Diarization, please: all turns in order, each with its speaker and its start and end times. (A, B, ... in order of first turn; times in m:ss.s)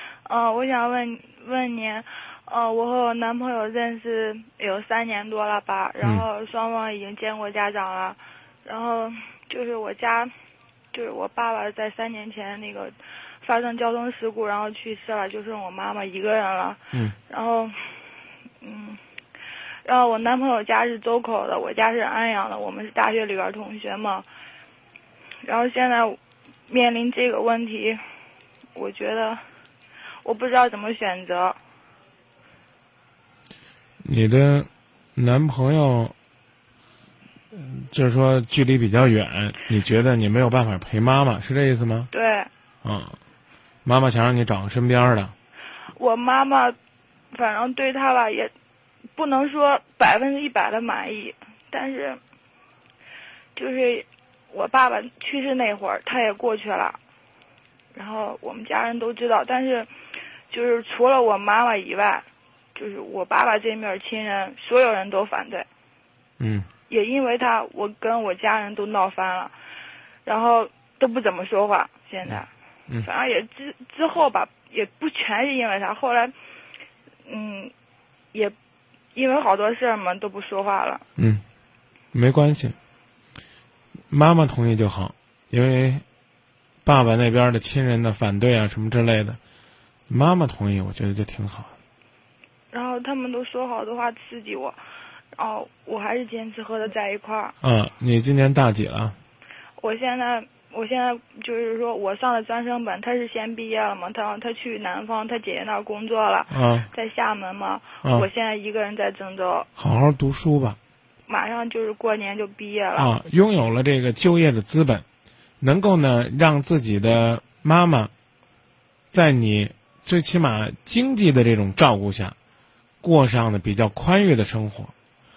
0:00.2-0:10.3 A
0:10.9-0:18.0 A
0:18.6-0:19.0 A
0:19.8-0:24.2 A
0:25.4-0:28.0 A
0:28.7-0:29.4 A
0:30.2-0:31.6 A
0:34.0-0:36.1 B
0:37.5-0:42.1 B
0:42.1-0:42.5 A
0:42.8-0:43.2 B
0:43.8-0:45.3 B
0:46.0-0:46.8 A
0:47.3-0:48.5 A
0:49.2-0:52.2 A
0:53.5-0:57.0 A
0:57.9-0:59.9 A
1:00.5-1:05.7 A
1:06.4-1:06.7 B
1:06.9-1:09.5 A
1:10.2-1:12.5 A
1:13.0-1:16.3 A
1:17.2-1:17.7 A
1:19.1-1:21.0 A
1:21.2-1:21.4 B
1:22.1-1:22.8 B
1:24.1-1:26.0 B
1:26.8-1:29.4 B
1:30.1-1:31.7 B
1:32.7-1:34.8 A
1:35.3-1:37.5 A
1:37.6-1:39.2 B
1:39.8-1:49.7 A
1:46.5-1:46.9 B
1:49.8-1:50.8 B
1:51.3-1:53.1 A
1:53.0-1:55.0 B
1:55.6-1:58.1 B
1:59.1-2:02.4 B
2:03.0-2:04.9 B